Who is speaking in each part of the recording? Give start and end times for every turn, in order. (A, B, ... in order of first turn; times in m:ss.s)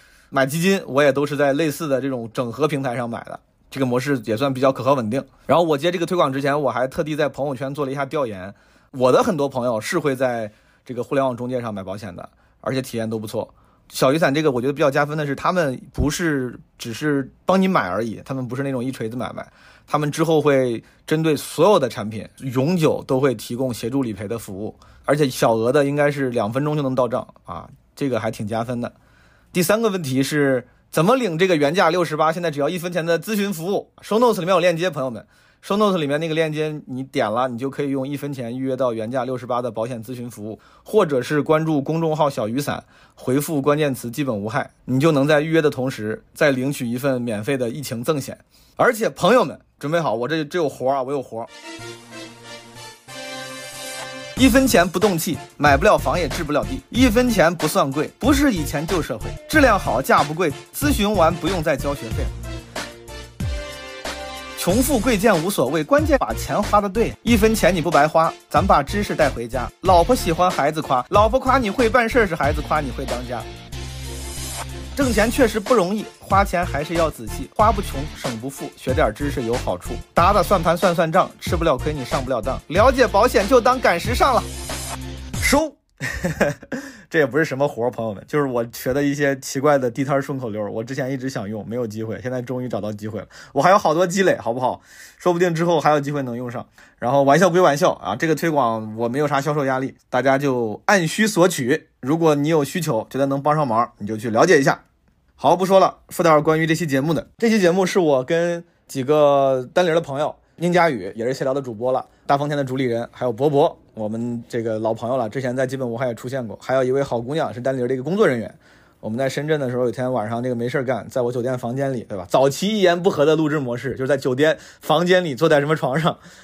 0:00.3-0:28.9 A
0:29.5-0:51.5 A
0:54.4-1:02.3 A
1:04.6-1:13.5 A
1:15.0-1:24.5 A
1:25.4-1:44.8 A
1:45.4-2:06.2 A